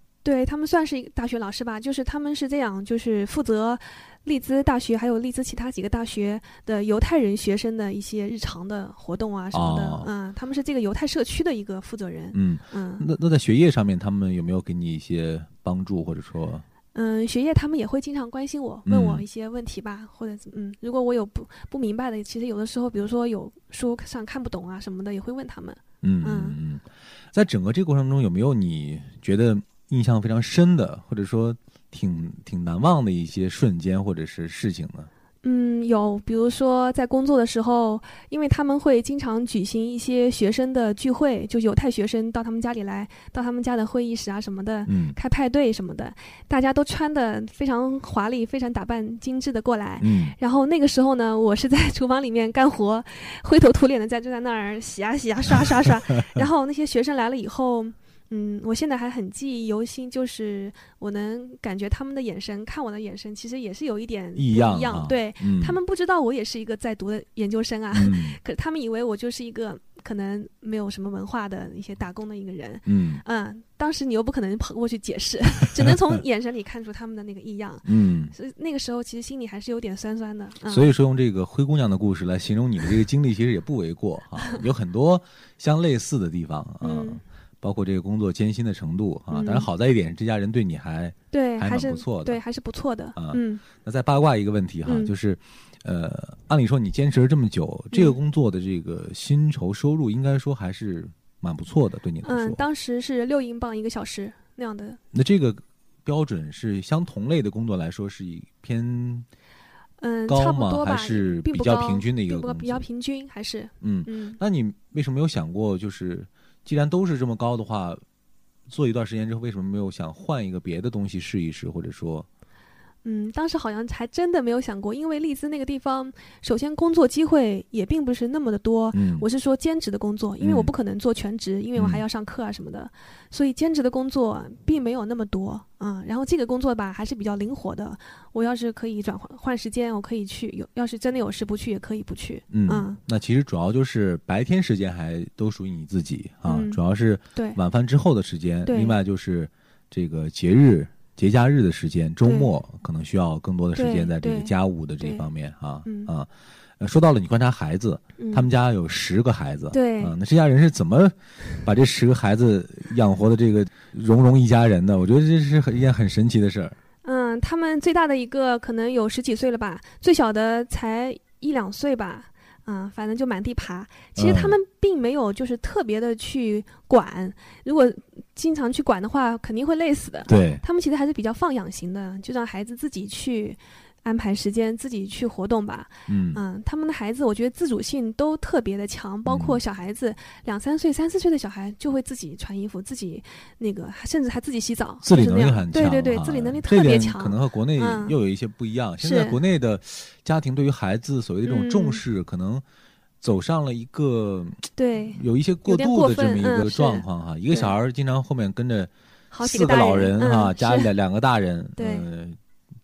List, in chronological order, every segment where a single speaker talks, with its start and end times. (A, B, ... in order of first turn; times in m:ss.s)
0:00.2-0:13.0 A
0:09.5-0:10.1 B
0:12.3-0:16.6 B
0:16.9-0:26.6 A
0:18.9-0:19.2 B
0:26.0-0:35.1 B
0:35.4-1:20.9 A
0:44.9-0:45.2 B
0:50.0-0:50.4 B
0:55.6-0:56.4 B
1:04.4-1:05.8 B
1:07.9-1:08.4 B
1:12.8-1:13.2 B
1:17.8-1:18.3 B
1:20.7-1:32.4 B
1:26.8-1:27.2 A
1:29.3-1:29.7 A
1:31.3-1:33.6 A
1:33.2-1:42.6 B
1:34.8-1:35.1 A
1:37.9-1:38.2 A
1:42.2-1:45.0 A
1:45.1-1:49.3 B
1:50.0-1:54.4 A
1:50.3-1:52.8 B
1:53.8-1:58.0 B
1:58.7-2:02.3 B
2:03.0-2:23.0 A
2:08.9-2:09.2 B
2:10.4-2:10.7 B
2:11.8-2:12.0 B
2:22.5-2:46.8 B
2:26.4-2:26.8 A
2:28.6-2:28.9 A
2:32.2-2:32.5 A
2:33.7-2:35.3 A
2:35.8-2:36.1 A
2:38.2-2:38.5 A
2:39.7-2:40.1 A
2:47.0-3:18.1 A
2:54.2-2:54.6 B
3:00.3-3:00.6 B
3:06.1-3:06.4 B
3:09.2-3:09.6 B
3:15.0-3:22.6 B
3:19.0-3:19.4 A
3:21.4-3:22.0 A
3:23.2-3:28.9 B
3:24.8-3:27.7 A
3:29.3-3:30.9 A
3:29.4-3:32.4 B
3:31.8-3:32.1 A